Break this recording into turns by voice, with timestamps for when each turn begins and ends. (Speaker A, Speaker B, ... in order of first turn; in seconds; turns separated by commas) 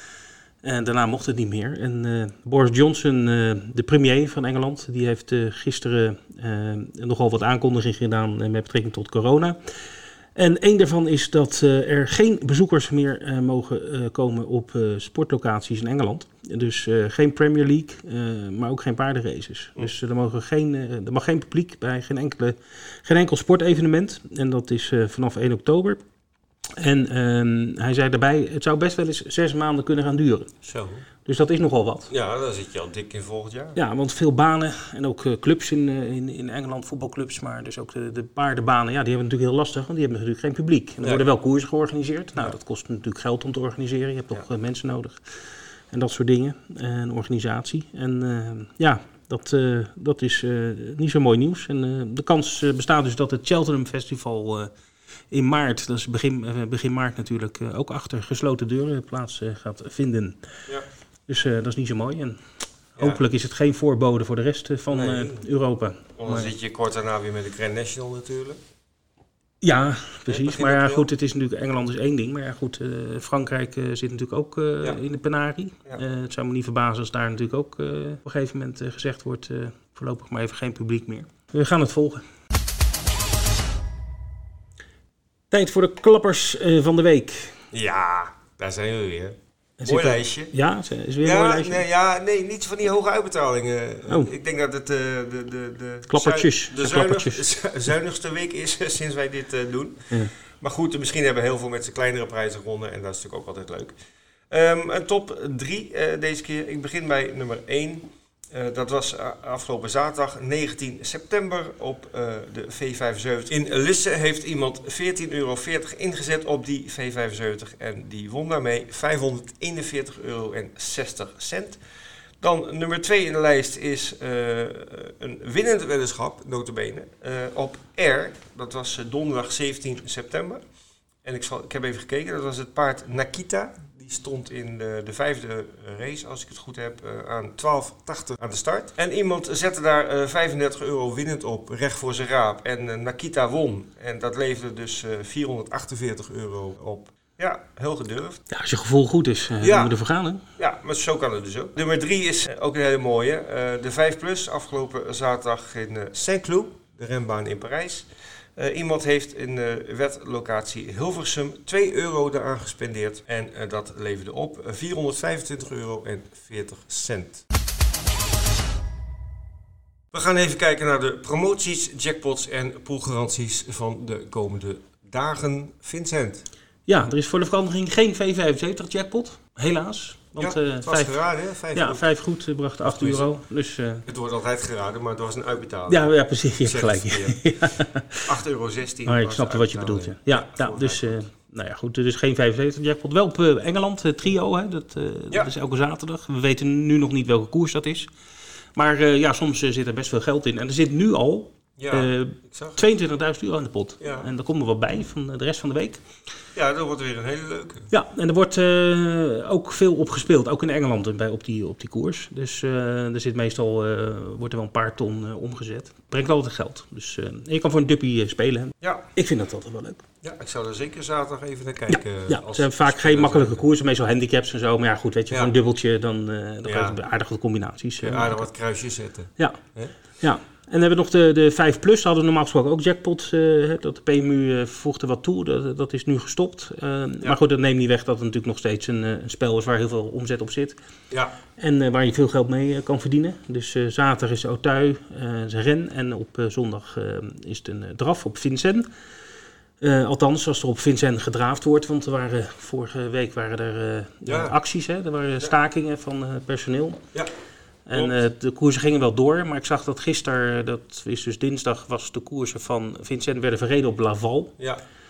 Speaker A: 0.6-26.0, Speaker A: 26.8-30.5, Speaker B: 30.6-31.1, Speaker A: 31.2-32.1, Speaker B: 32.1-33.8, Speaker A: 33.8-54.7, Speaker A: 55.3-60.7, Speaker A: 61.3-66.5, Speaker B: 64.9-65.5, Speaker B: 66.2-68.6, Speaker A: 69.6-82.2, Speaker B: 70.3-71.1, Speaker A: 85.5-87.6, Speaker B: 87.7-90.5, Speaker A: 89.8-91.8, Speaker B: 91.2-104.0, Speaker A: 96.1-97.4, Speaker B: 104.5-121.8, Speaker B: 122.4-130.6, Speaker B: 131.2-148.4, Speaker A: 148.5-150.4, Speaker B: 149.6-149.9, Speaker B: 150.6-167.4, Speaker B: 170.1-176.5, Speaker A: 176.9-181.2, Speaker B: 180.4-182.1, Speaker A: 181.7-184.0, Speaker B: 182.8-183.3, Speaker B: 184.1-187.7, Speaker A: 185.9-188.3, Speaker B: 188.2-191.2, Speaker A: 189.1-198.1, Speaker A: 198.8-206.0, Speaker B: 201.8-202.8, Speaker B: 204.0-204.3, Speaker B: 206.6-207.9, Speaker A: 207.9-220.0, Speaker B: 218.8-219.1, Speaker B: 220.2-223.6, Speaker A: 221.9-228.5, Speaker B: 226.7-227.0, Speaker B: 228.0-229.9, Speaker A: 230.2-240.8, Speaker A: 241.6-248.9, Speaker A: 249.8-257.0, Speaker B: 254.3-254.6, Speaker A: 257.9-264.6, Speaker B: 257.9-258.2